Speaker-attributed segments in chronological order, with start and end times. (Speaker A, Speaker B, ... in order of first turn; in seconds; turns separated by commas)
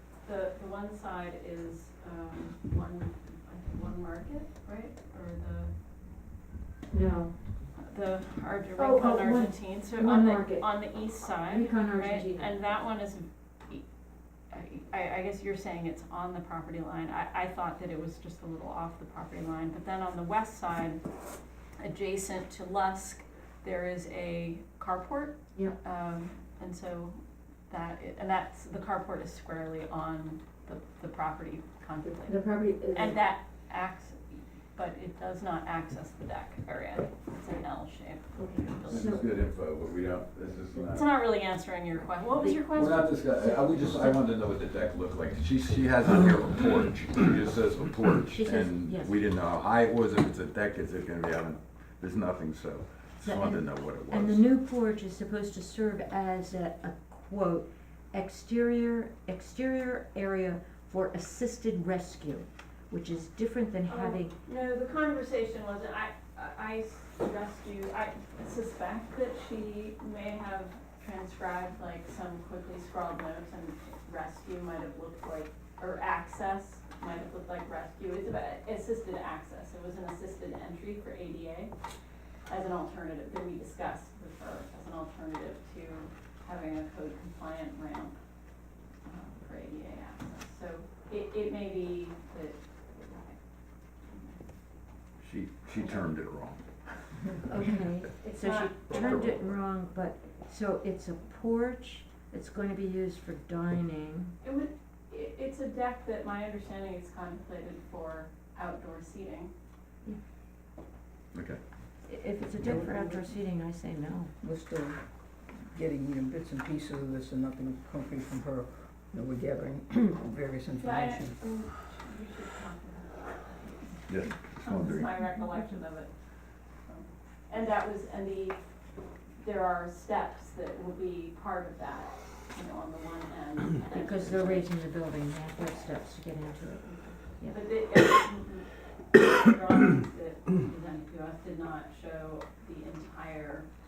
Speaker A: 0.2-5.7, Speaker B: 6.9-7.3, Speaker A: 7.8-13.8, Speaker B: 8.8-12.5, Speaker A: 14.5-21.0, Speaker A: 21.8-39.2, Speaker B: 32.2-33.2, Speaker B: 38.4-39.3, Speaker C: 38.9-41.1, Speaker A: 40.8-43.2, Speaker B: 42.4-42.6, Speaker C: 42.7-54.5, Speaker B: 43.4-44.0, Speaker B: 48.3-49.1, Speaker B: 53.2-64.3, Speaker A: 63.9-81.7, Speaker A: 82.5-88.1, Speaker A: 89.0-93.4, Speaker A: 94.1-94.4, Speaker C: 95.2-97.4, Speaker B: 97.5-104.3, Speaker A: 98.2-99.3, Speaker C: 98.9-99.6, Speaker A: 104.4-109.5, Speaker C: 111.3-111.6, Speaker B: 112.0-114.3, Speaker D: 112.6-113.2, Speaker D: 114.4-121.3, Speaker A: 120.8-126.1, Speaker C: 124.1-125.1, Speaker A: 126.8-128.6, Speaker A: 129.4-134.7, Speaker B: 133.9-137.6, Speaker A: 137.4-143.7